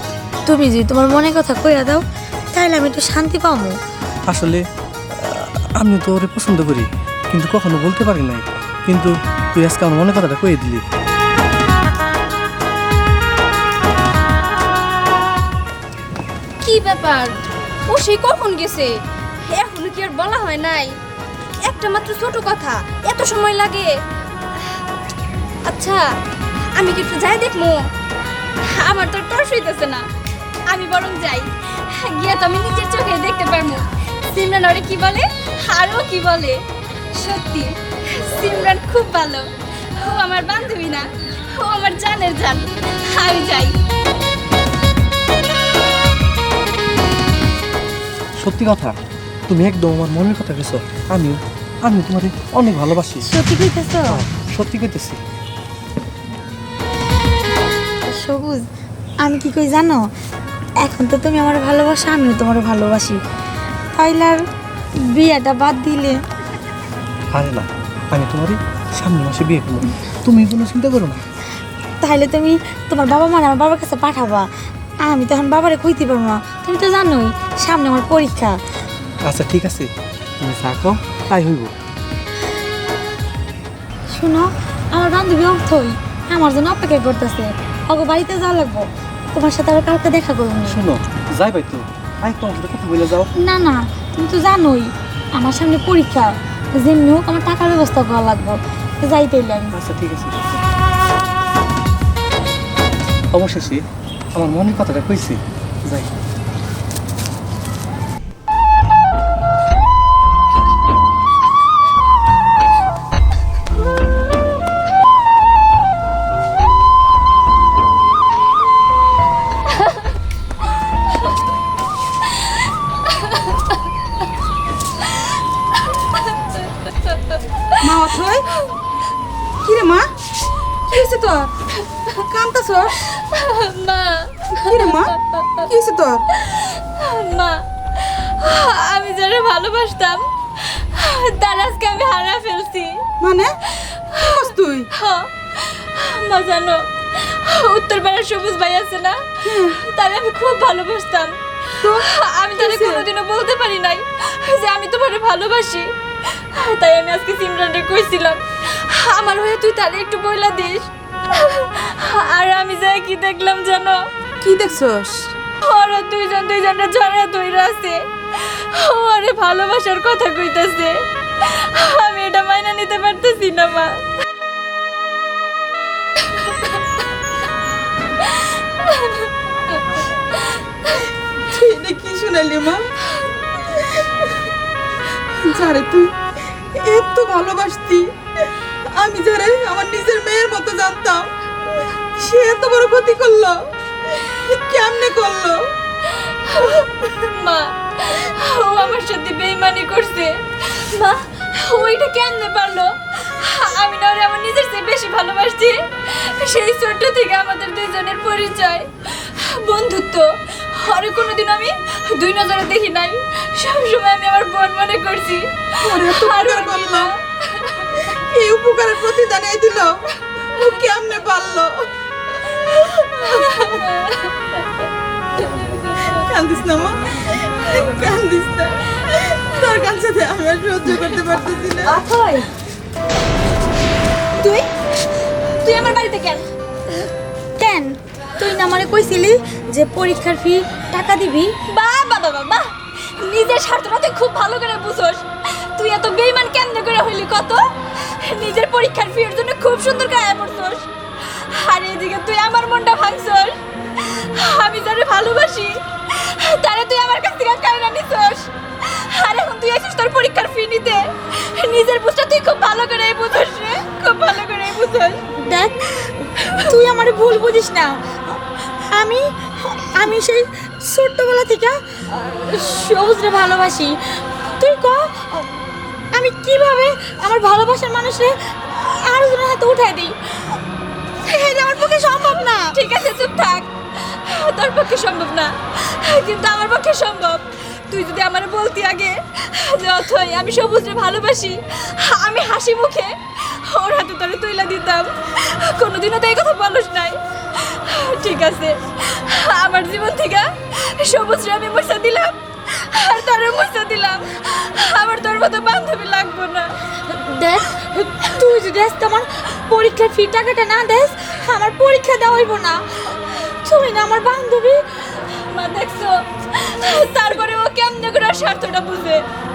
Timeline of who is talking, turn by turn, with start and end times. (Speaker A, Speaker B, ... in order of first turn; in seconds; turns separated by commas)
Speaker A: 0.5-2.0, Speaker A: 2.5-3.7, Speaker B: 4.3-4.6, Speaker B: 5.1-10.8, Speaker C: 16.6-17.4, Speaker C: 17.9-18.9, Speaker C: 19.5-20.9, Speaker C: 21.6-24.0, Speaker C: 25.7-26.1, Speaker C: 26.8-27.8, Speaker C: 28.6-30.1, Speaker C: 30.7-36.6, Speaker C: 37.1-43.8, Speaker B: 48.4-49.0, Speaker B: 49.5-53.3, Speaker A: 53.3-54.2, Speaker B: 54.1-55.2, Speaker A: 58.1-58.6, Speaker A: 59.2-60.0, Speaker A: 60.8-63.2, Speaker A: 64.0-64.4, Speaker A: 65.1-66.2, Speaker B: 67.3-71.2, Speaker A: 72.0-74.5, Speaker A: 75.0-78.6, Speaker B: 79.2-79.9, Speaker B: 80.4-81.7, Speaker A: 84.1-90.8, Speaker B: 90.7-93.3, Speaker A: 93.4-99.8, Speaker B: 99.7-100.6, Speaker B: 103.3-103.8, Speaker B: 104.3-106.1, Speaker C: 119.7-120.1, Speaker C: 123.0-123.8, Speaker C: 125.1-128.7, Speaker D: 127.8-128.5, Speaker D: 129.6-130.1, Speaker D: 130.9-131.5, Speaker D: 132.2-133.0, Speaker C: 133.0-135.7, Speaker D: 134.7-135.1, Speaker D: 135.7-136.2, Speaker C: 136.3-143.0, Speaker D: 143.2-143.6, Speaker C: 143.7-144.4, Speaker D: 144.2-144.9, Speaker C: 144.9-164.0, Speaker D: 149.4-149.8, Speaker D: 151.8-153.1, Speaker D: 164.4-165.3, Speaker C: 165.6-174.0, Speaker C: 176.3-177.0, Speaker C: 178.2-181.1, Speaker D: 181.5-182.8, Speaker D: 183.8-184.1, Speaker D: 185.4-186.1, Speaker D: 186.8-188.1, Speaker D: 188.9-191.3, Speaker D: 192.2-193.6, Speaker D: 194.2-195.7, Speaker C: 196.1-218.2, Speaker D: 215.8-217.1, Speaker D: 218.2-219.9, Speaker D: 220.5-221.9, Speaker C: 220.6-220.8, Speaker C: 222.5-226.2, Speaker D: 223.3-223.8, Speaker D: 226.1-232.0, Speaker C: 234.4-234.7, Speaker C: 235.6-236.5, Speaker A: 237.6-241.6, Speaker C: 241.7-265.2, Speaker A: 265.4-275.6, Speaker A: 276.1-280.6, Speaker A: 281.2-282.8, Speaker C: 282.7-306.7, Speaker A: 307.1-312.8, Speaker A: 313.4-314.8, Speaker C: 315.3-319.2